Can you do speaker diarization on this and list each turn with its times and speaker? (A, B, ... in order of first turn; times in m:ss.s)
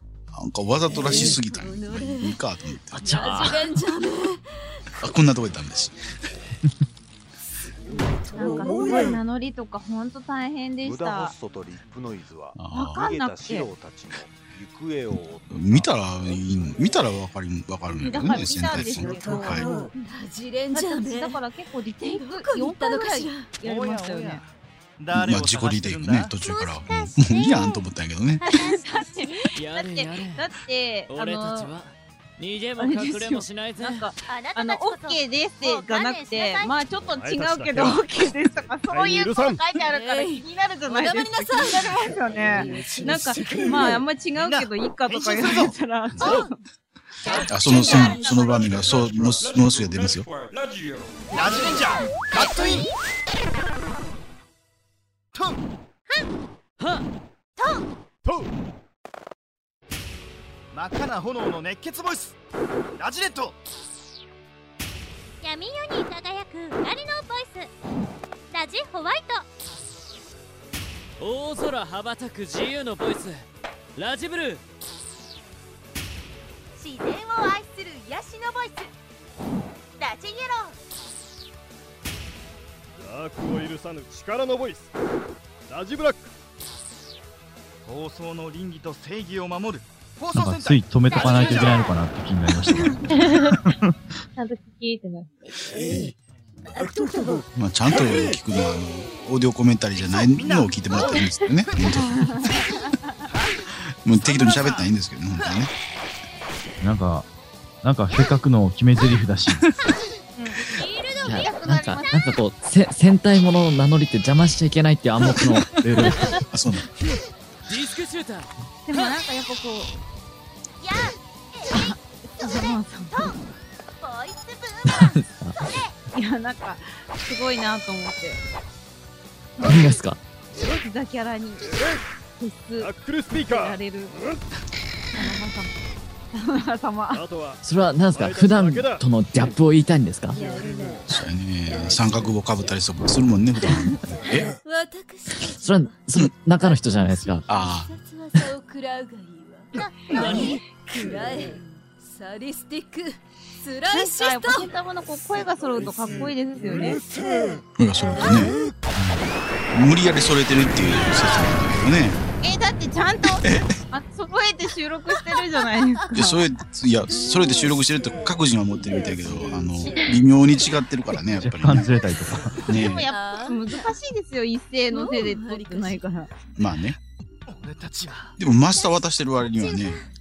0:00.3-0:03.6 A
0:00.9-0:02.4 B
0:02.9-0:04.7 B
0:03.0-0:03.6 C
0:05.0-0:06.0 A
0:08.4-0:11.3 D
0:10.8-0:16.9 E
0:12.6-0:13.1 A
0:12.7-0:13.7 D
0:15.5-0:19.7 A
0:17.9-0:19.7 D
0:18.0-0:18.9 E
0:19.4-0:21.4 B
0:20.7-0:24.4 D
0:22.0-0:23.6 B
0:23.6-0:24.5 F
0:25.0-0:26.4 F
0:25.1-0:28.4 A
0:26.5-0:27.6 G
0:26.9-0:27.3 C
0:28.4-0:31.7 D
0:28.4-0:28.8 G
0:29.6-0:30.5 H
0:31.1-0:34.1 H
0:32.8-0:46.6 D
0:34.3-0:36.8 G
0:37.1-0:39.7 I
0:39.8-0:43.2 B
0:43.7-0:46.4 F
0:47.2-0:48.9 D
0:47.5-0:50.3 A
0:48.7-0:49.4 I
0:51.3-0:52.9 F
0:55.3-0:55.6 F
0:56.8-0:57.0 H
0:57.6-0:57.8 G
0:58.2-0:58.5 I
1:00.7-1:02.4 F
1:03.0-1:03.6 F
1:05.4-1:07.7 J
1:05.5-1:07.6 K
1:08.5-1:09.3 J
1:08.7-1:09.3 K
1:11.2-1:13.4 H
1:14.0-1:14.6 H
1:16.8-1:18.9 G
1:20.0-1:20.8 G
1:23.0-1:24.9 I
1:25.7-1:26.3 I
1:27.9-1:31.9 F
1:30.4-1:34.0 L
1:31.2-1:31.9 G
1:33.1-1:33.6 K
1:34.4-1:35.4 K
1:37.6-1:42.6 A
1:40.0-1:42.6 F
1:41.9-1:43.1 D
1:43.3-1:43.6 F
1:44.0-1:45.7 A
1:44.1-1:44.9 F
1:46.8-1:47.3 L
1:47.8-1:49.6 L
1:50.4-1:52.3 D
1:51.2-1:56.1 C
1:55.8-1:56.2 L
1:56.5-1:56.9 A
1:57.7-1:58.5 H
1:58.9-1:59.9 D
2:00.8-2:03.3 G
2:01.7-2:03.4 D
2:04.0-2:05.1 G
2:05.0-2:05.6 C
2:06.1-2:08.4 D
2:09.6-2:10.2 C
2:10.6-2:11.8 D
2:11.7-2:12.1 I
2:12.4-2:14.2 D
2:12.8-2:14.4 I
2:15.1-2:15.7 D
2:16.3-2:17.2 D
2:17.1-2:17.6 I
2:17.6-2:20.4 C
2:18.1-2:19.1 I
2:21.1-2:24.5 A
2:24.6-2:26.1 B
2:25.6-2:27.4 C
2:26.6-2:34.7 B
2:27.5-2:27.9 A
2:30.1-2:30.6 D
2:30.2-2:30.6 H
2:33.9-2:37.0 D
2:37.8-2:42.2 A
2:42.4-2:46.5 D
2:43.4-2:43.7 A
2:46.1-2:51.9 A
2:47.2-2:47.6 B
2:51.4-2:52.6 L
2:52.6-2:56.3 D
2:52.7-2:53.1 A
2:52.8-2:53.9 B
2:54.9-2:56.2 B
2:56.6-2:57.0 A
2:57.5-2:58.4 F
2:58.4-3:00.0 A
2:58.7-2:59.0 B